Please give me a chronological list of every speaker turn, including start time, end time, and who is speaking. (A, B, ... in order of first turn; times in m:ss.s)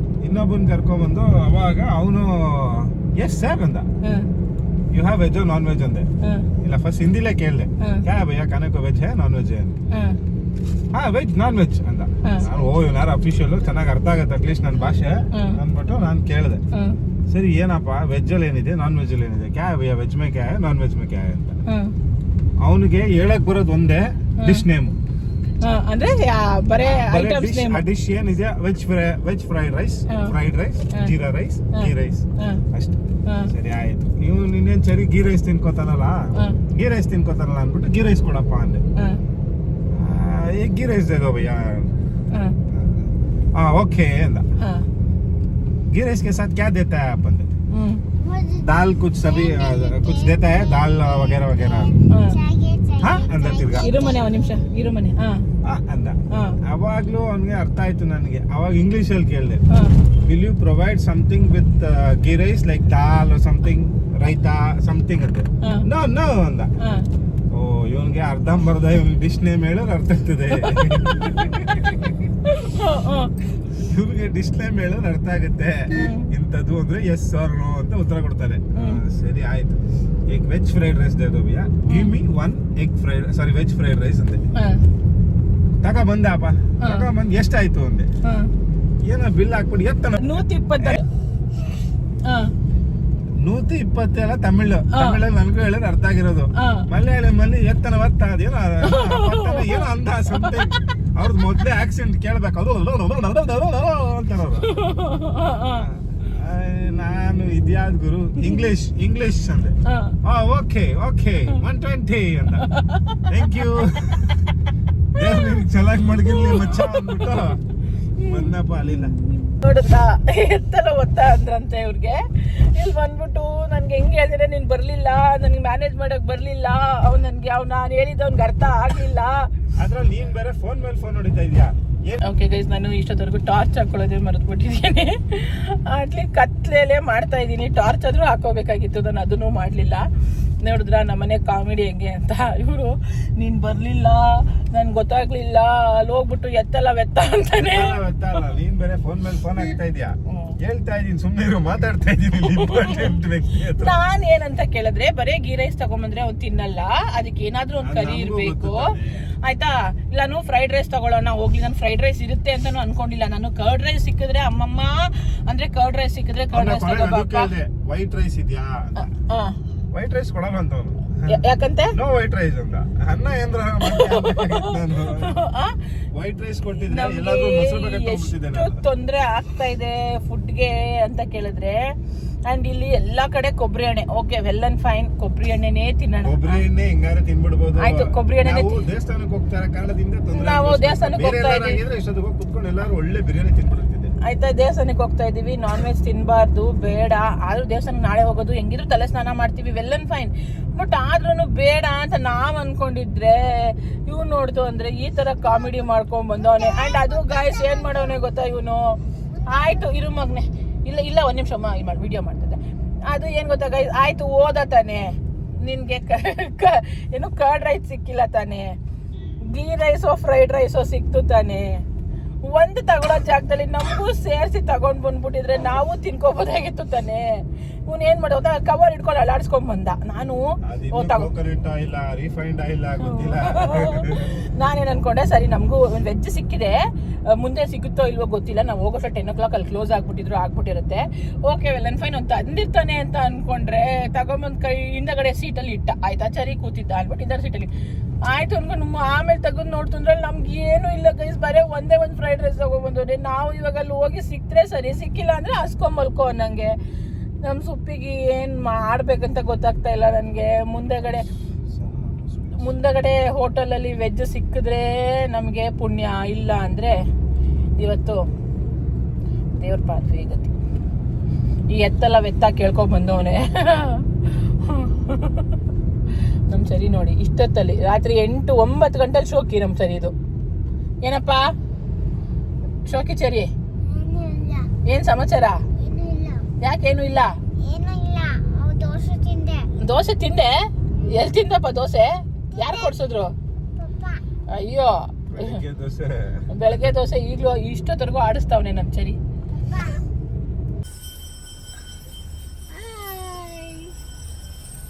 0:00.2-0:03.9 A
0:04.9-0:06.1 A
0:06.2-0:06.5 B
0:06.6-0:09.8 A
0:09.9-0:10.2 B
0:10.9-0:16.6 A
0:12.2-0:12.6 B
0:15.3-0:15.6 B
0:17.3-0:21.6 A
0:21.7-0:21.9 B
0:22.6-0:25.0 A
0:25.6-0:27.8 B
0:27.0-0:38.8 A
0:31.7-0:32.6 B
0:39.9-0:41.9 A
0:42.7-0:44.4 A
0:44.6-0:44.8 B
0:45.9-0:47.5 A
0:47.7-0:48.0 B
0:48.2-0:54.9 C
0:48.6-0:51.9 A
0:52.1-0:52.4 B
0:53.0-0:54.0 A
0:53.8-0:55.4 B
0:55.6-0:59.6 A
0:56.3-0:56.6 B
1:00.2-1:06.7 A
1:07.5-1:12.1 A
1:10.5-1:13.3 B
1:13.7-1:19.8 A
1:15.9-1:16.3 B
1:18.8-1:19.0 B
1:20.3-1:24.4 A
1:21.9-1:22.1 B
1:25.8-1:28.1 A
1:26.8-1:27.1 B
1:28.2-1:28.5 B
1:29.0-1:31.0 A
1:30.2-1:31.0 B
1:33.4-1:44.7 A
1:34.9-1:35.2 B
1:36.6-1:36.9 B
1:38.8-1:40.9 B
1:44.6-1:45.9 B
1:45.8-1:52.7 A
1:48.4-1:48.6 B
1:49.8-1:50.1 B
1:52.6-1:53.4 B
1:53.3-1:54.5 A
1:55.1-1:57.6 A
1:55.2-1:55.6 B
1:56.2-1:57.4 B
1:58.2-2:09.5 B
1:58.2-1:59.1 A
2:09.8-2:12.3 A
2:12.2-2:20.1 B
2:20.6-2:28.0 B
2:27.6-2:34.0 A
2:30.3-2:30.6 B
2:32.4-2:33.1 B
2:33.8-2:47.5 B
2:37.8-2:39.3 A
2:46.5-2:49.1 A
2:49.0-2:49.6 B
2:49.9-2:55.4 A
2:51.3-2:52.0 B
2:53.8-2:55.8 B
2:56.1-2:58.8 A
2:56.8-3:01.9 B
3:02.4-3:06.6 B
3:06.2-3:14.1 A
3:07.8-3:08.8 B
3:10.3-3:11.8 B
3:14.2-3:29.0 B
3:25.4-3:25.8 C
3:26.4-3:28.2 C
3:29.3-3:30.0 C
3:29.5-3:38.7 B
3:39.5-3:41.8 B
3:42.4-3:51.3 B
3:50.6-3:54.3 A
3:53.0-4:07.7 B
4:08.2-4:16.8 B
4:17.4-4:21.3 B
4:21.7-4:22.7 A
4:22.6-4:27.0 B
4:27.8-4:28.2 B
4:29.6-4:30.5 B
4:31.7-4:35.6 B
4:36.5-4:40.1 B
4:41.0-4:41.5 B
4:42.8-4:43.5 B
4:43.8-4:44.7 C
4:44.8-4:45.6 B
4:45.8-4:46.5 C
4:46.6-4:47.3 B
4:47.6-4:49.7 C
4:49.8-4:53.3 B
4:52.5-4:53.0 C
4:53.8-4:54.2 C
4:54.5-4:55.6 B
4:55.3-4:56.5 A
4:56.5-4:59.2 B
4:59.6-5:00.0 C
5:02.7-5:03.7 C